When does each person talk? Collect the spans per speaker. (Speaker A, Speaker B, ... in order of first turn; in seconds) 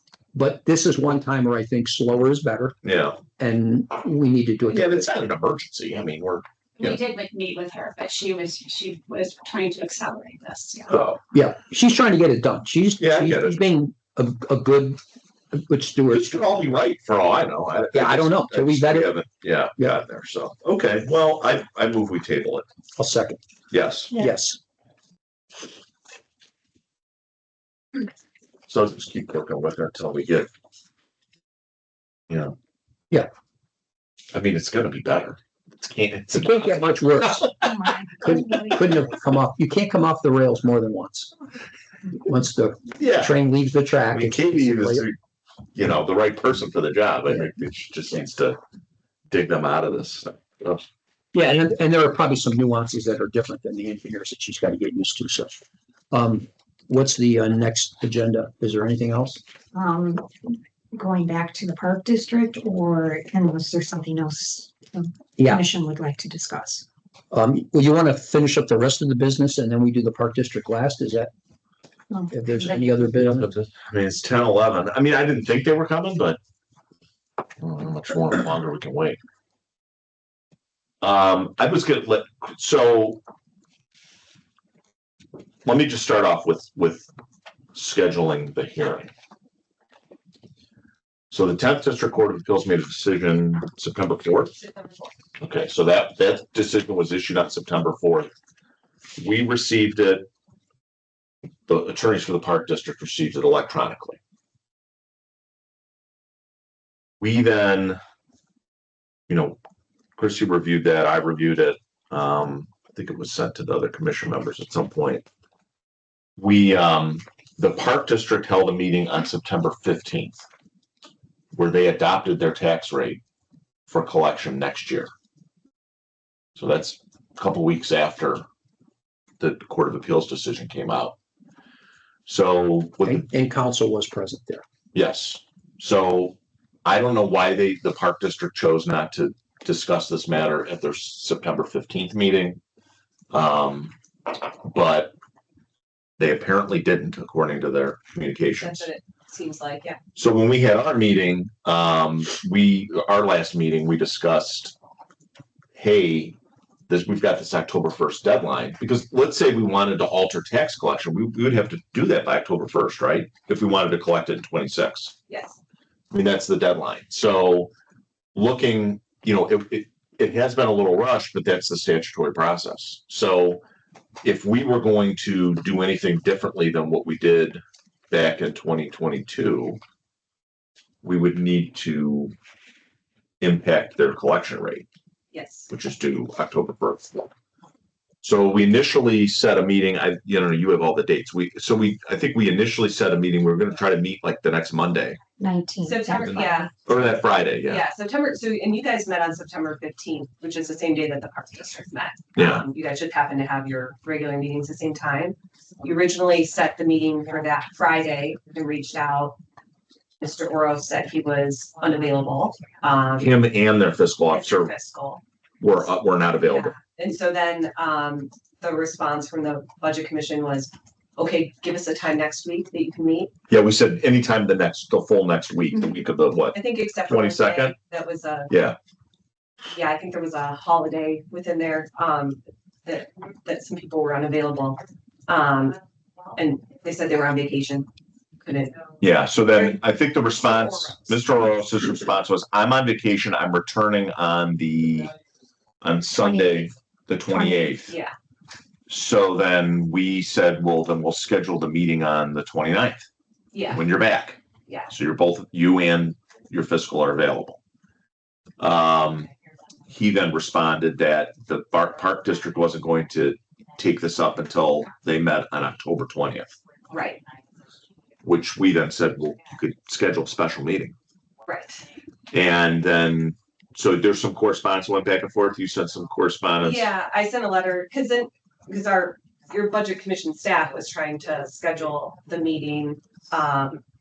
Speaker A: 0.3-2.8, 3.4-5.0, 11.3-15.0, 15.5-16.3, 17.9-19.1, 23.0-23.4, 24.1-24.6, 36.4-37.5, 38.2-41.3, 42.2-45.0, 51.3-55.6, 56.1-59.4, 65.4-65.6, 67.3-71.3, 72.3-73.5, 133.0-134.6
Speaker B: 2.8-3.2, 4.7-7.0, 10.9-11.2, 13.0-13.6, 16.1-22.6, 23.7-24.1, 28.7-30.5, 32.3-32.5, 34.3-37.7, 43.0-43.4, 44.1-45.2, 45.7-48.6, 49.3-50.8, 73.2-76.4, 77.6-79.2, 81.0-83.2, 85.6-87.1, 87.7-89.1, 91.3-94.5, 95.4-98.3, 99.2-100.2, 101.7-104.2, 107.2-108.0, 109.3-109.6, 110.2-115.2, 116.4-120.4, 121.5-123.2, 123.9-125.1, 126.5-128.4, 129.4-131.2, 132.2-133.2, 134.9-142.6, 143.3-143.9, 144.6-145.1, 146.2-148.9, 150.2-154.7, 155.7-156.3, 156.9-165.1, 166.1-167.7, 168.3-173.6, 174.2-179.8, 181.0-182.3, 183.4-184.9, 185.7-187.3, 188.2-195.2, 196.8-197.8, 202.3-202.6, 213.2-214.7, 215.6-216.7, 223.5-227.7, 228.5-228.8, 239.0-245.1, 245.8-247.9, 248.9-253.0, 253.7-257.6, 258.6-259.3, 259.9-266.5, 268.2-270.9, 272.3-276.9
Speaker C: 6.8-11.0
Speaker D: 37.6-38.7, 59.7-66.8, 72.1-72.7, 195.4-196.6
Speaker E: 94.5-95.1, 148.6-150.0, 165.3-165.6, 185.3-185.7, 195.8-196.7, 197.6-209.4, 210.2-213.3, 214.3-215.2, 216.4-223.3, 226.5-228.5, 229.7-235.8, 236.3-237.9, 238.4-238.8, 240.3-241.2, 247.9-248.1, 253.5-253.8, 266.9-267.2, 271.4-271.8, 276.6-283.8